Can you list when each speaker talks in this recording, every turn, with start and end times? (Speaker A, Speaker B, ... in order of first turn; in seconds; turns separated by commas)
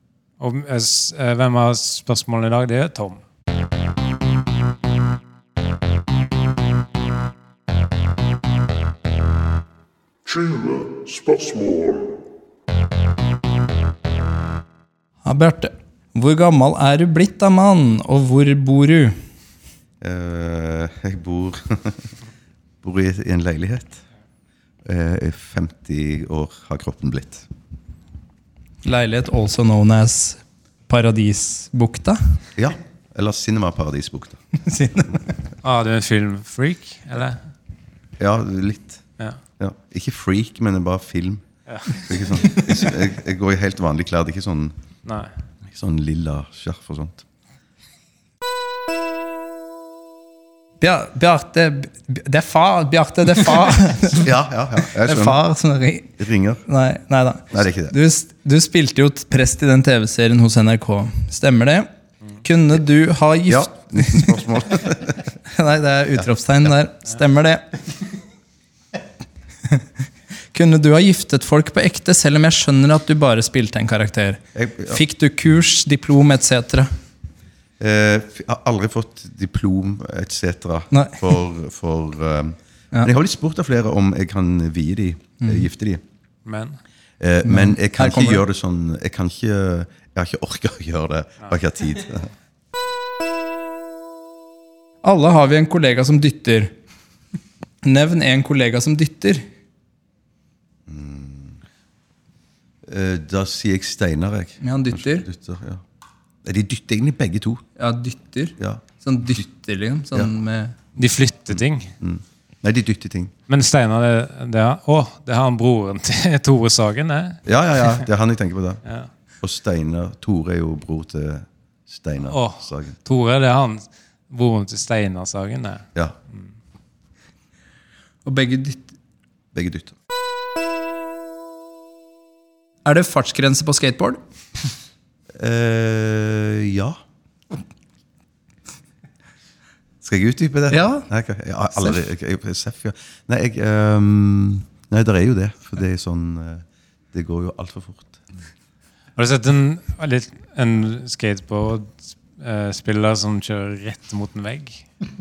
Speaker A: 0.4-3.2, Speaker B: 15.2-19.2, Speaker C: 20.0-22.1, Speaker C: 22.8-24.0, Speaker C: 24.8-27.4, Speaker B: 28.8-32.4, Speaker C: 32.5-34.4, Speaker B: 34.6-35.1, Speaker A: 35.6-37.4, Speaker C: 38.2-39.0, Speaker C: 39.6-44.7, Speaker A: 41.7-42.0, Speaker A: 45.0-45.3, Speaker C: 45.7-47.2, Speaker B: 50.8-54.3, Speaker C: 54.1-55.5, Speaker B: 54.9-56.1, Speaker C: 56.2-56.6, Speaker B: 56.7-61.9, Speaker C: 57.5-57.9, Speaker B: 62.4-64.5, Speaker C: 63.5-65.3, Speaker B: 65.4-67.8, Speaker B: 70.5-76.9, Speaker C: 74.5-75.0, Speaker C: 77.8-86.0, Speaker B: 80.9-81.2, Speaker B: 85.4-85.7, Speaker A: 86.4-86.8, Speaker C: 87.2-92.3, Speaker B: 87.4-88.4, Speaker B: 95.0-96.7, Speaker B: 97.8-99.5, Speaker C: 100.9-101.6, Speaker C: 102.8-105.8, Speaker B: 104.6-105.2, Speaker C: 106.4-107.7, Speaker B: 107.8-110.7, Speaker C: 108.6-108.8, Speaker A: 111.0-111.9, Speaker C: 112.0-113.3, Speaker A: 113.5-117.4, Speaker C: 117.5-118.8, Speaker A: 118.8-119.1, Speaker C: 119.4-122.9, Speaker A: 122.2-126.4, Speaker B: 128.2-128.9, Speaker C: 129.5-129.9, Speaker B: 132.8-134.2, Speaker C: 135.4-137.0, Speaker C: 140.0-148.2, Speaker B: 140.7-141.1, Speaker A: 149.2-154.9